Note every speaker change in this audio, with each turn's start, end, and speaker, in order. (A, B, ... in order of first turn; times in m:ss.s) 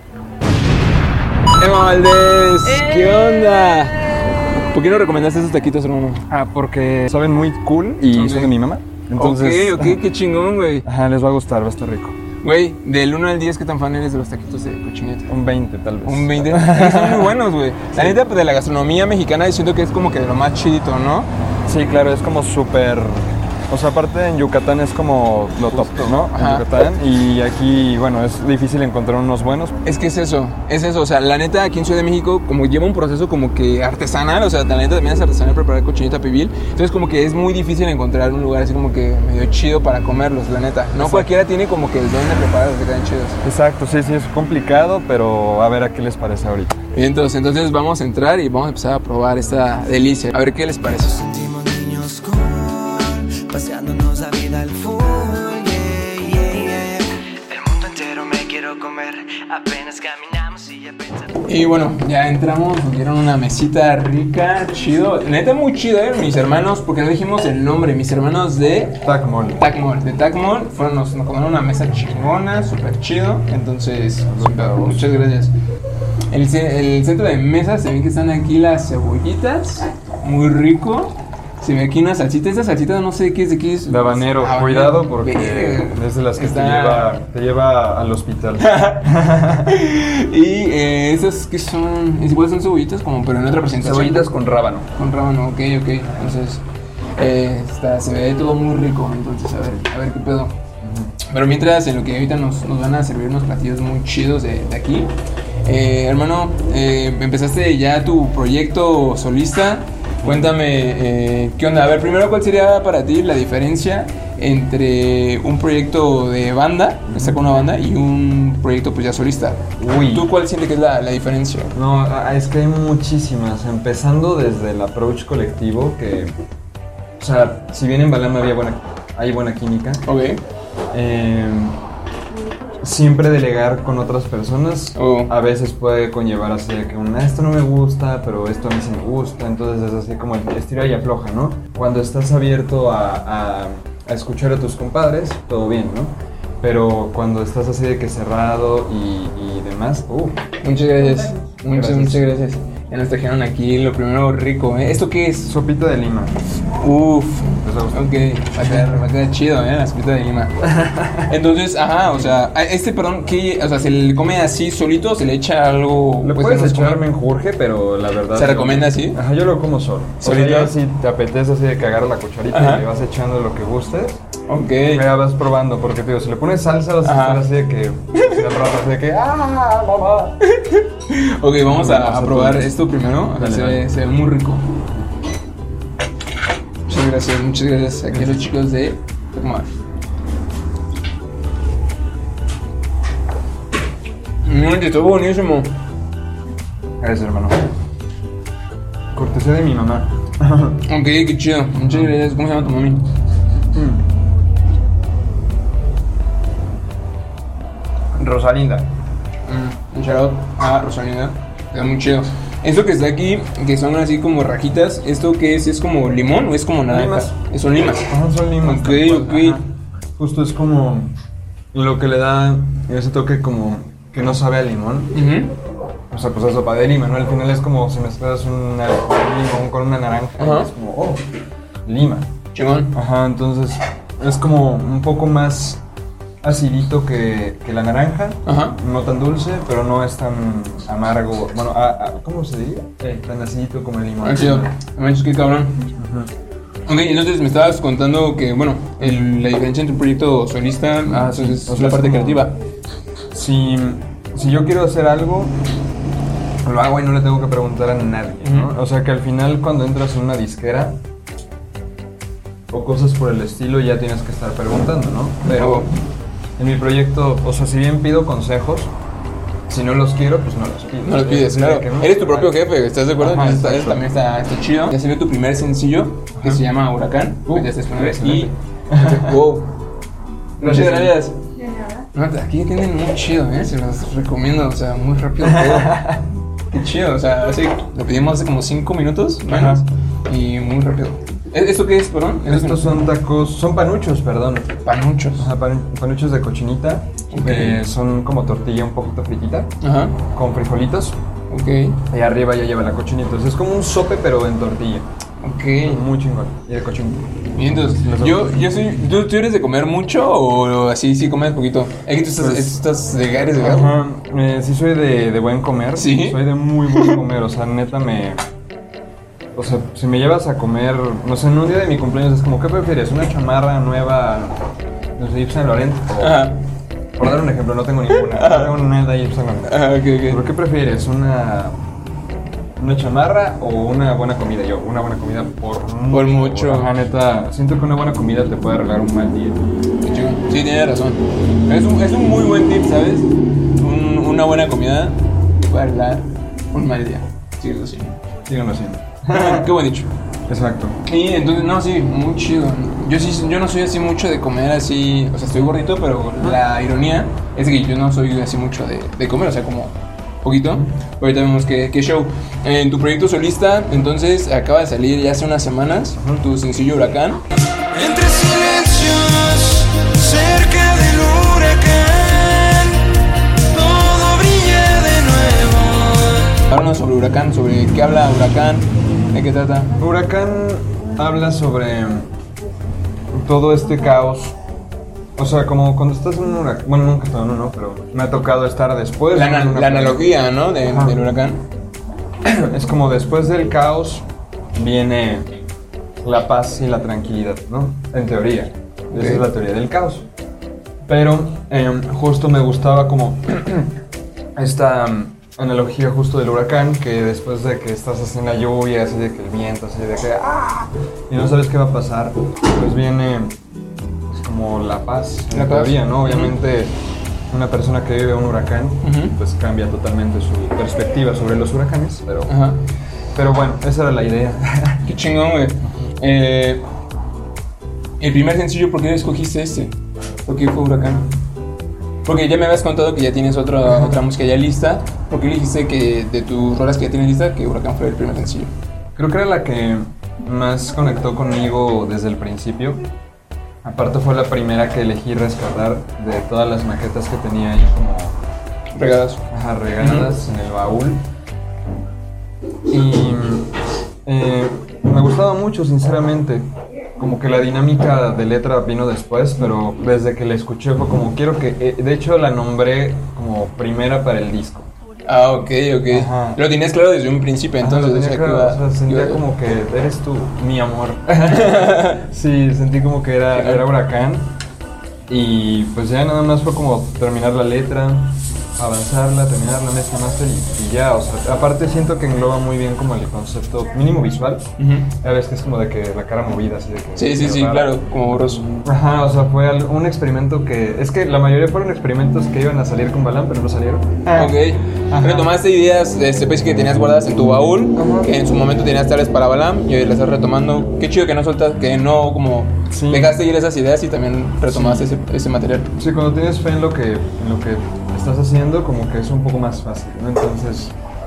0:01.6-0:04.0 A
0:04.7-0:06.3 A
0:06.3-0:10.0 B
0:08.1-0:08.5 A
0:09.2-0:10.8 A
0:10.8-0:12.2 B
0:12.4-0:15.3 A
0:15.3-0:17.4 B
0:16.0-0:21.3 A
0:17.9-0:18.2 B
0:21.7-0:29.8 B
0:25.7-0:26.7 A
0:29.8-0:43.4 A
0:41.0-0:41.3 B
0:43.4-0:46.8 B
0:46.9-0:51.2 A
0:51.0-1:01.5 C
1:01.4-1:09.0 A
1:09.0-1:09.6 B
1:09.6-1:15.5 A
1:14.3-1:15.2 B
1:16.3-1:27.1 A
1:23.9-1:29.8 B
1:28.6-1:34.3 A
1:33.8-1:34.9 B
1:35.0-1:36.6 A
1:37.2-1:40.6 A
1:40.8-1:41.1 B
1:41.2-1:45.1 A
1:45.6-2:01.7 A
1:50.2-1:50.5 B
1:57.1-1:57.4 B
1:59.8-2:00.3 B
2:01.7-2:06.4 B
2:07.2-2:10.0 B
2:10.0-2:10.4 A
2:10.9-2:11.8 B
2:12.8-2:30.5 B
2:15.0-2:15.3 A
2:30.6-2:35.5 A
2:31.7-2:32.3 B
2:35.5-2:36.4 B
2:36.8-2:40.7 A
2:37.6-2:39.0 B
2:40.6-2:41.3 B
2:41.2-2:47.0 A
2:46.2-2:54.2 B
2:48.3-2:49.2 A
2:50.2-2:50.8 A
2:52.5-2:52.8 A
2:54.5-2:55.0 A
2:54.8-3:00.4 B
2:57.0-2:57.4 A
2:58.2-2:58.4 A
3:00.4-3:04.6 A
3:01.6-3:02.7 B
3:03.3-3:03.8 B
3:06.9-3:09.7 A
3:08.1-3:08.4 B
3:14.4-3:15.7 A
3:17.0-3:17.6 B
3:19.1-3:20.8 B
3:20.8-3:23.1 A
3:23.7-3:24.0 B
3:28.2-3:28.9 B
3:29.5-3:39.6 A
3:36.8-3:37.3 B
3:38.0-3:39.7 B
3:40.2-3:41.1 B
3:41.7-3:45.1 B
3:45.1-3:45.5 A
3:46.1-3:51.2 B
3:50.4-3:50.7 A
3:51.8-3:52.3 B
3:52.5-3:53.0 A
3:52.9-3:55.8 B
3:56.4-4:04.7 B
3:58.4-3:58.8 A
4:04.2-4:05.9 A
4:06.0-4:06.3 B
4:06.9-4:12.6 A
4:09.0-4:09.3 B
4:11.1-4:12.5 B
4:13.3-4:15.6 B
4:16.6-4:21.0 B
4:18.4-4:18.7 A
4:22.7-4:25.9 B
4:25.5-4:25.9 A
4:26.6-4:28.9 B
4:29.7-4:32.6 B
4:31.0-4:39.7 A
4:33.2-4:34.0 B
4:36.4-4:36.6 B
4:37.5-4:39.4 B
4:40.6-4:41.4 A
4:40.6-4:41.2 B
4:42.1-4:46.1 A
4:45.4-4:46.2 B
4:46.7-4:53.1 A
4:49.5-4:49.8 B
4:52.4-4:54.7 B
4:54.8-4:55.5 A
4:55.4-5:01.2 B
4:57.3-4:57.8 A
4:59.8-5:00.2 A
5:01.5-5:02.0 A
5:02.1-5:05.1 B
5:05.4-5:06.0 A
5:05.8-5:08.7 B
5:07.6-5:14.0 A
5:12.4-5:12.8 B
5:13.5-5:18.4 B
5:16.0-5:16.4 A
5:16.9-5:17.2 A
5:19.6-5:24.6 B
5:25.2-5:26.5 B
5:26.2-5:26.6 A
5:27.2-5:31.8 B
5:28.1-5:28.8 A
5:29.7-5:30.4 A
5:32.8-5:39.6 B
5:36.1-5:36.9 A
5:40.0-5:48.2 A
5:48.5-5:49.8 B
5:49.3-5:50.1 A
5:50.5-5:51.0 B
5:51.0-6:07.4 A
6:06.2-6:06.4 B
6:07.9-6:13.1 C
6:13.7-6:16.4 C
6:16.4-6:20.0 A
6:20.0-6:22.3 B
6:23.3-6:24.6 B
6:25.4-6:31.2 B
6:29.3-6:31.6 A
6:32.4-6:34.2 B
6:34.8-6:35.5 B
6:36.2-6:40.3 B
6:39.1-6:39.5 A
6:41.1-6:44.0 B
6:44.6-6:53.6 B
6:54.3-6:57.0 B
6:55.5-6:56.6 A
6:57.5-7:02.5 B
6:59.0-6:59.4 A
7:02.5-7:02.8 A
7:03.4-7:05.1 B
7:05.0-7:06.8 A
7:08.2-7:09.9 A
7:10.5-7:11.3 A
7:12.2-7:18.7 A
7:13.9-7:14.2 B
7:19.2-7:23.0 B
7:23.8-7:28.4 B
7:29.0-7:29.5 A
7:29.5-7:31.2 B
7:30.0-7:30.3 A
7:32.9-7:33.7 B
7:34.2-7:36.7 B
7:37.2-7:44.9 B
7:45.2-7:49.4 A
7:46.1-7:46.6 B
7:47.8-7:54.5 B
7:51.5-7:52.2 A
7:53.5-7:53.9 A
7:55.3-8:15.5 B
8:04.8-8:05.1 A
8:07.2-8:08.8 A
8:14.3-8:25.9 A
8:18.0-8:18.3 B
8:22.9-8:23.4 B
8:24.7-8:25.1 B
8:26.0-8:31.0 B